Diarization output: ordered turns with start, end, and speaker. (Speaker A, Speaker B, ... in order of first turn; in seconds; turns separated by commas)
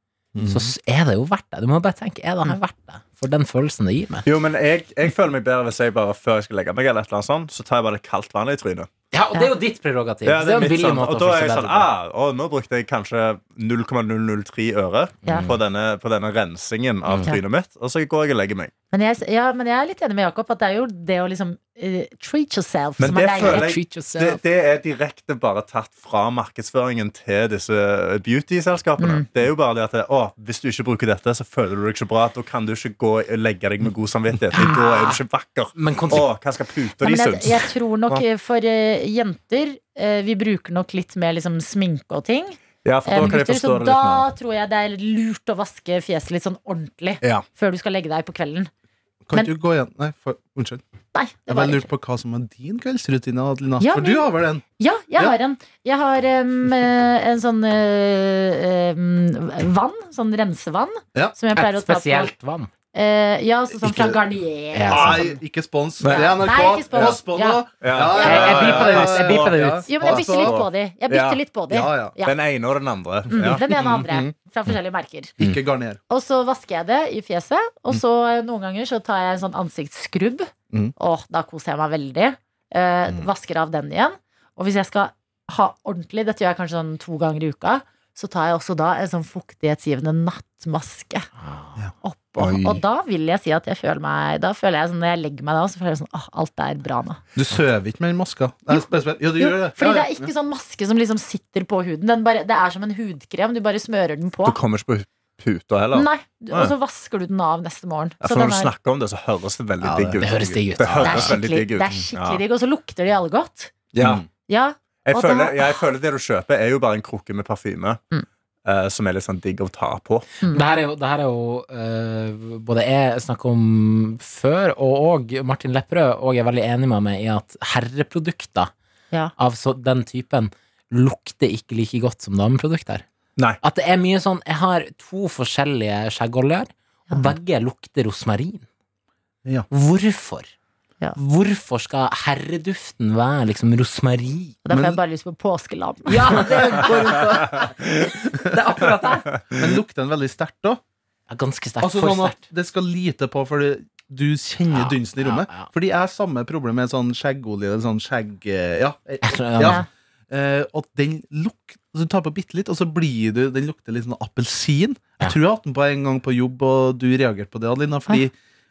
Speaker A: 0.3-0.7, Speaker B: 0.5-4.2, Speaker C: 4.2-8.9, Speaker B: 9.1-11.9, Speaker C: 10.2-18.7, Speaker B: 15.2-15.5, Speaker D: 18.9-23.7, Speaker C: 23.0-38.2, Speaker B: 23.1-24.4, Speaker D: 29.0-29.2, Speaker B: 34.5-35.2, Speaker D: 34.5-34.8, Speaker B: 35.7-36.3, Speaker D: 37.0-48.7, Speaker C: 42.8-44.3, Speaker A: 49.3-50.8, Speaker D: 51.1-51.9, Speaker A: 51.5-54.6, Speaker D: 53.8-62.3, Speaker B: 61.5-62.7, Speaker D: 62.9-65.3, Speaker A: 63.8-64.2, Speaker B: 64.7-65.3, Speaker A: 64.9-70.6, Speaker C: 66.0-66.3, Speaker D: 66.1-67.6, Speaker C: 67.8-71.4, Speaker D: 68.1-68.8, Speaker B: 68.2-69.9, Speaker D: 69.9-72.3, Speaker A: 71.7-72.2, Speaker C: 72.2-74.0, Speaker D: 73.3-75.3, Speaker A: 73.8-74.2, Speaker A: 75.4-76.0, Speaker D: 76.1-91.3, Speaker B: 91.4-91.7, Speaker D: 92.0-97.2, Speaker C: 92.4-92.8, Speaker A: 97.3-100.3, Speaker D: 99.4-104.6, Speaker C: 104.4-106.7, Speaker D: 105.9-108.7, Speaker C: 108.2-112.4, Speaker A: 109.8-111.2, Speaker B: 110.2-111.4, Speaker D: 111.0-113.7, Speaker C: 113.9-114.2, Speaker A: 114.0-114.2, Speaker D: 114.5-115.8, Speaker C: 115.0-118.0, Speaker C: 118.6-120.2, Speaker B: 120.5-128.7, Speaker B: 129.4-133.0, Speaker B: 133.6-138.7, Speaker B: 139.7-140.5, Speaker B: 141.2-144.6, Speaker D: 144.6-146.4, Speaker A: 144.7-145.0, Speaker B: 146.1-149.4, Speaker A: 149.5-150.8, Speaker B: 151.3-152.4, Speaker A: 151.8-168.3, Speaker B: 154.7-155.7, Speaker B: 159.2-159.8